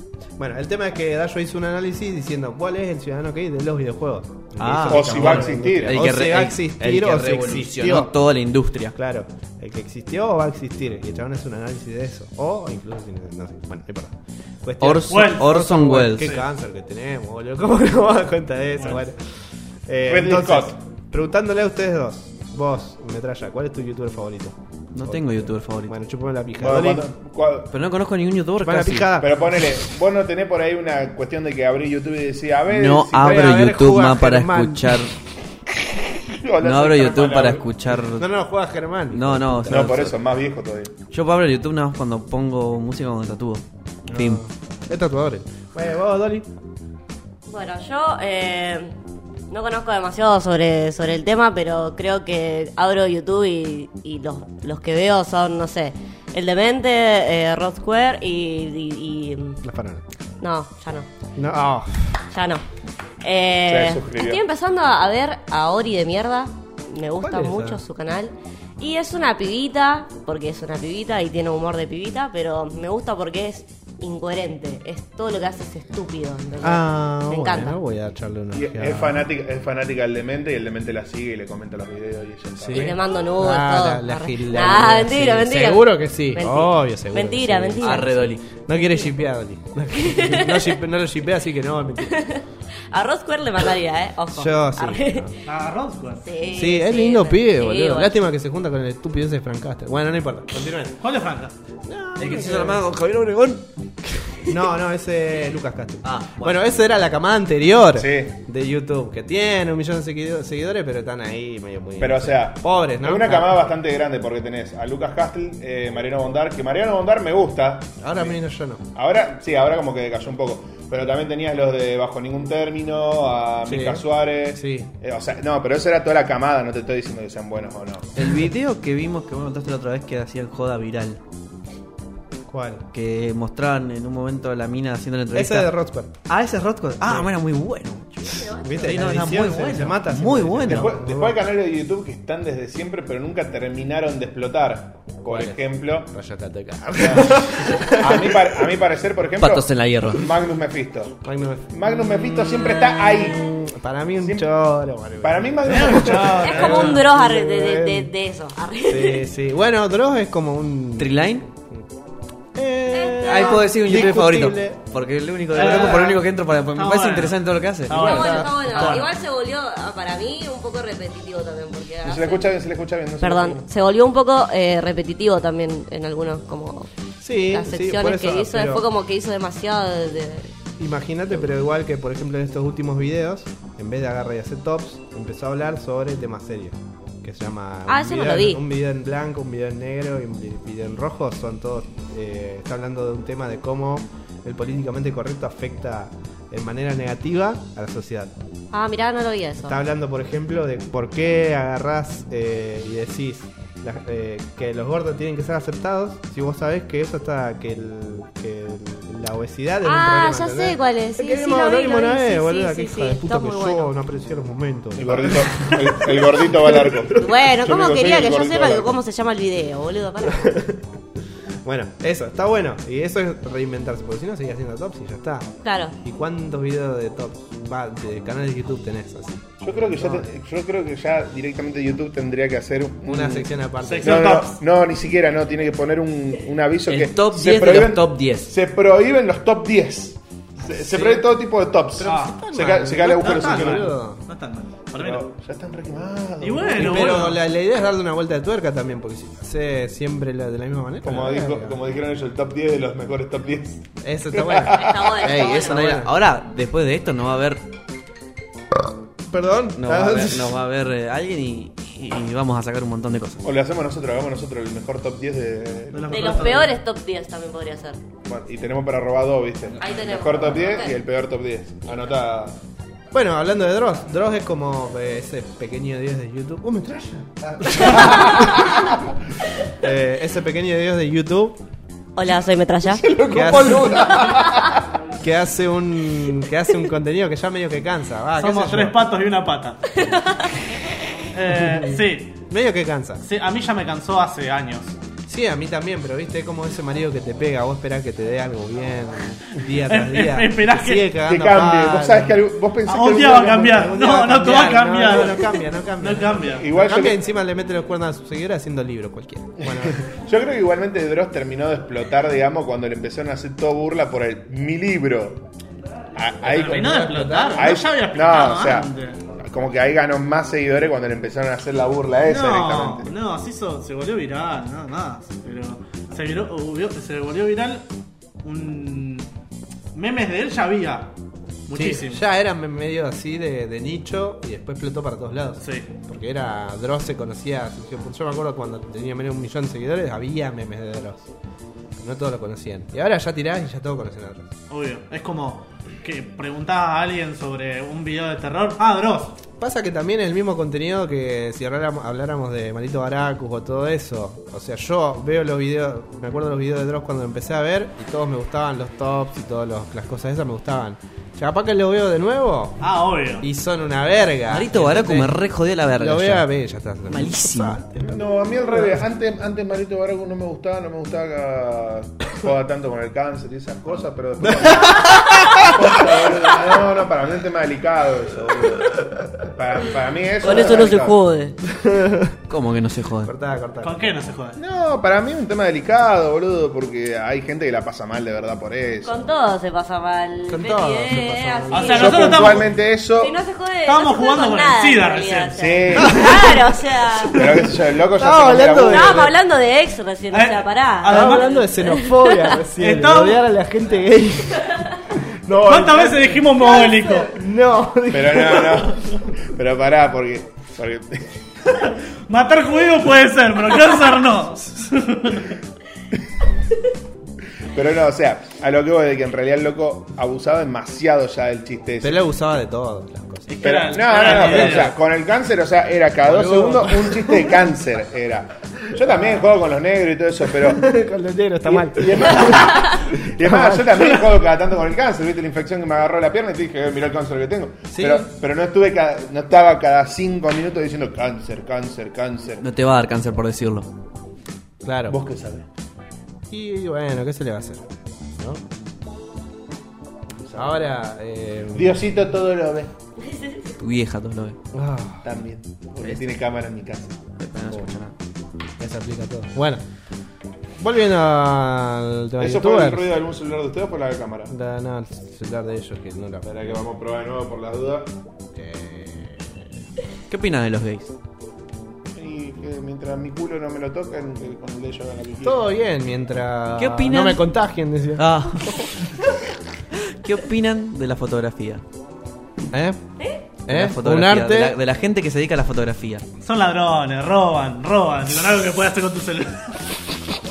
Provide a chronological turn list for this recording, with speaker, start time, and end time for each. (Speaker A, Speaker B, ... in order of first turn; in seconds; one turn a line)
Speaker A: 0.4-8.1
Speaker B: 4.6-8.9
Speaker C: 4.9-6.0
Speaker A: 8.9-19.3
Speaker B: 14.8-16.4
Speaker D: 15.1-15.5
Speaker A: 19.9-27.1
Speaker C: 20.1-20.8
Speaker B: 24.9-26.0
Speaker C: 26.6-27.7
Speaker B: 27.7-29.2
Speaker A: 28.6-29.4
Speaker C: 29.2-33.6
Speaker B: 32.7-35.1
Speaker A: 33.2-35.0
Speaker C: 35.7-37.7
Speaker B: 36.6-38.3
Speaker A: 38.1-40.0
Speaker B: 39.1-40.2
Speaker C: 39.7-41.0
Speaker B: 41.1-44.4
Speaker A: 44.1-46.5
Speaker E: 47.5-48.9
Speaker E: 49.5-59.6
Speaker A: 59.6-60.0
Speaker E: 60.4-61.1
Speaker A: 61.4-62.2
Speaker E: 62.3-62.6
Speaker E: 63.2-77.8
Speaker C: 63.7-64.4
Speaker A: 67.2-67.8
Speaker A: 76.6-79.2
Speaker C: 78.5-83.0
Speaker A: 82.6-92.2
Speaker E: 82.7-88.2
Speaker B: 87.8-88.4
Speaker E: 90.0-90.8
Speaker E: 92.0-95.3
Speaker A: 94.3-95.3
Speaker D: 95.5-96.2
Speaker E: 96.2-98.2
Speaker A: 96.5-101.0
Speaker D: 101.0-101.5
Speaker A: 101.9-102.8
Speaker B: 102.2-103.7
Speaker A: 104.5-113.6
Speaker B: 106.0-106.6
Speaker C: 108.0-108.4
Speaker C: 112.0-118.4
Speaker A: 118.0-118.8
Speaker C: 118.9-128.1
Speaker A: 123.7-124.9
Speaker B: 128.2-131.2
Speaker A: 132.5-132.8
Speaker B: 132.9-140.9
Speaker A: 135.3-136.1
Speaker E: 138.3-139.2
Speaker A: 138.6-141.4
Speaker C: 140.7-146.1
Speaker A: 145.3-148.5
Speaker C: 147.0-153.5
Speaker B: 149.4-150.3
Speaker A: 151.2-158.1
Speaker C: 154.2-154.5
Speaker C: 155.2-156.9
Speaker D: 155.7-157.0
Speaker E: 156.4-159.2
Speaker A: 158.8-161.2
Speaker B: 161.0-161.4
Speaker A: 162.6-164.8
Speaker E: 162.9-163.6
Speaker B: 163.2-168.0
Speaker D: 165.5-166.2
Speaker A: 165.5-166.1
Speaker D: 166.7-169.1
Speaker A: 167.9-169.0
Speaker E: 167.9-172.5
Speaker C: 172.0-173.7
Speaker E: 173.2-176.9
Speaker A: 177.2-178.8
Speaker E: 177.5-180.5
Speaker A: 180.8-198.3
Speaker E: 187.9-188.6
Speaker E: 198.7-199.8
Speaker A: 199.6-217.2
Speaker E: 209.8-213.9
Speaker C: 215.0-219.0
Speaker E: 217.2-220.5
Speaker A: 220.3-220.8
Speaker A: 221.6-225.5
Speaker E: 225.6-225.9
Speaker A: 226.0-230.2
Speaker C: 229.6-233.5
Speaker A: 233.1-234.4
Speaker D: 233.9-234.6
Speaker C: 234.0-243.9
Speaker B: 236.9-238.5
Speaker A: 240.8-241.2
Speaker A: 242.0-244.2
Speaker D: 242.0-242.3
Speaker D: 243.1-245.3
Speaker C: 244.9-247.3
Speaker D: 246.4-247.4
Speaker A: 246.8-251.8
Speaker C: 251.0-255.2
Speaker A: 254.0-256.1
Speaker E: 254.7-255.9
Speaker B: 255.3-257.6
Speaker A: 259.3-260.6
Speaker B: 259.8-263.4
Speaker C: 263.4-266.6
Speaker D: 265.9-266.8
Speaker E: 266.1-268.0
Speaker C: 268.2-272.6
Speaker E: 269.8-270.9
Speaker A: 273.1-278.9
Speaker C: 277.7-278.8
Speaker A: 279.7-281.6
Speaker E: 282.2-283.1
Speaker C: 282.8-284.9
Speaker A: 283.3-284.0
Speaker A: 285.2-289.0
Speaker D: 288.4-290.0
Speaker E: 290.0-290.6
Speaker D: 291.3-292.4
Speaker A: 291.5-291.9
Speaker A: 292.5-293.2
Speaker D: 293.2-294.9
Speaker A: 295.3-302.4
Speaker D: 299.9-301.1
Speaker C: 301.3-303.9
Speaker D: 302.9-306.7
Speaker A: 303.6-310.0
Speaker C: 306.5-307.2
Speaker C: 309.6-315.4
Speaker C: 316.1-316.9
Speaker D: 316.4-319.2
Speaker A: 316.5-317.7
Speaker C: 317.5-323.1
Speaker D: 322.2-327.9
Speaker D: 328.4-329.3
Speaker D: 329.9-331.1
Speaker D: 331.7-332.2
Speaker A: 331.7-341.3
Speaker D: 335.6-335.9
Speaker A: 342.0-344.5
Speaker D: 344.7-349.4
Speaker A: 349.6-362.9
Speaker D: 362.8-363.5
Speaker A: 363.4-365.4
Speaker B: 364.5-366.5
Speaker A: 366.0-368.2
Speaker B: 367.1-367.8
Speaker C: 368.0-381.2
Speaker A: 374.4-375.9
Speaker E: 380.4-381.6
Speaker A: 381.7-382.4
Speaker B: 382.5-383.3
Speaker A: 383.2-384.1
Speaker D: 383.8-384.6
Speaker C: 384.6-389.1
Speaker E: 389.0-392.6
Speaker A: 390.5-392.3
Speaker D: 391.7-392.7
Speaker C: 391.9-393.4
Speaker E: 393.2-397.5
Speaker D: 393.9-395.6
Speaker C: 395.6-396.5
Speaker A: 396.0-396.5
Speaker C: 397.3-399.3
Speaker A: 398.2-399.3
Speaker E: 398.8-402.6
Speaker D: 400.3-401.7
Speaker A: 401.1-409.0
Speaker D: 402.8-403.4
Speaker D: 405.6-407.4
Speaker C: 408.1-411.4
Speaker D: 411.7-415.6
Speaker C: 417.7-422.2
Speaker A: 422.0-424.9
Speaker D: 423.5-424.9
Speaker C: 423.6-430.9
Speaker A: 426.2-427.5
Speaker A: 430.6-434.2
Speaker C: 431.6-442.6
Speaker A: 437.9-438.3
Speaker B: 442.6-443.9
Speaker A: 444.8-445.2
Speaker C: 445.1-445.6
Speaker A: 446.5-447.9
Speaker C: 450.4-450.7
Speaker A: 450.5-452.0
Speaker C: 451.7-452.9
Speaker E: 453.2-453.7
Speaker B: 453.8-454.6
Speaker A: 454.7-455.3
Speaker C: 455.2-457.2
Speaker B: 456.0-456.3
Speaker B: 457.4-458.1
Speaker A: 458.8-459.8
Speaker A: 460.8-463.1
Speaker C: 462.4-464.5
Speaker A: 464.5-466.5
Speaker C: 466.4-468.1
Speaker A: 468.6-469.7
Speaker B: 470.3-471.1
Speaker C: 472.1-475.7
Speaker A: 475.4-478.9
Speaker B: 476.8-477.4
Speaker B: 478.1-478.9
Speaker B: 479.9-481.8
Speaker A: 482.7-483.0
Speaker A: 483.7-484.8
Speaker B: 483.7-486.2
Speaker D: 486.4-489.8